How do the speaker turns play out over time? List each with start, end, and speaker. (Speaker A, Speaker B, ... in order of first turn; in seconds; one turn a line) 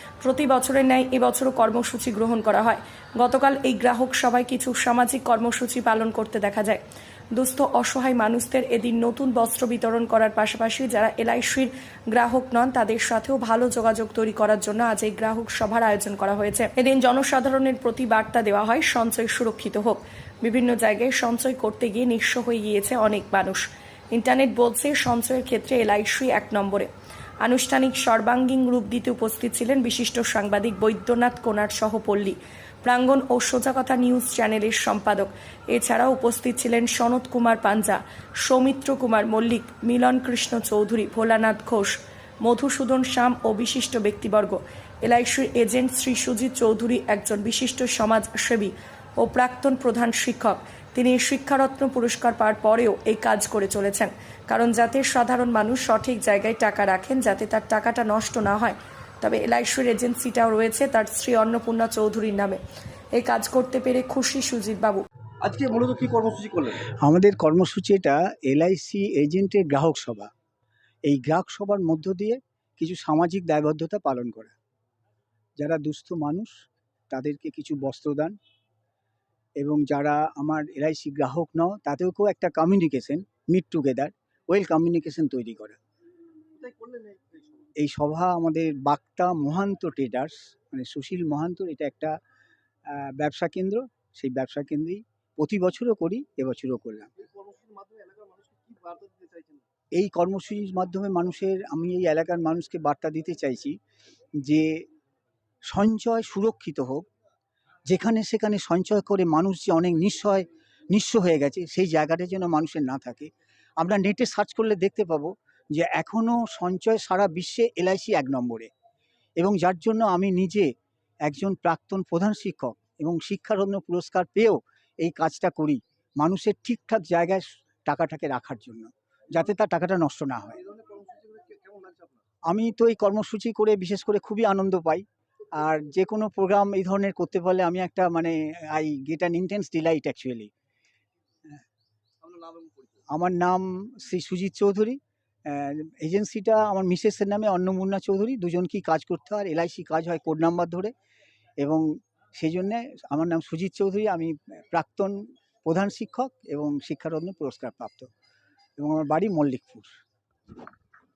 Speaker A: 0.2-6.8
Speaker A: 7.3-26.9
Speaker A: 27.4-62.6
Speaker A: 63.1-65.0
Speaker B: 65.4-66.8
Speaker C: 66.8-70.3
Speaker C: 71.0-74.6
Speaker C: 75.6-76.5
Speaker C: 77.1-78.4
Speaker C: 79.6-85.8
Speaker B: 86.5-87.7
Speaker C: 87.8-92.2
Speaker C: 92.9-97.1
Speaker B: 97.2-99.7
Speaker C: 99.9-103.8
Speaker C: 104.4-104.9
Speaker C: 105.7-107.1
Speaker C: 107.9-118.7
Speaker C: 119.4-120.7
Speaker C: 121.2-130.6
Speaker B: 130.6-132.2
Speaker C: 132.5-135.0
Speaker C: 135.6-140.5
Speaker B: 142.2-143.0
Speaker C: 143.1-150.9
Speaker C: 151.6-158.1
Speaker C: 158.8-159.9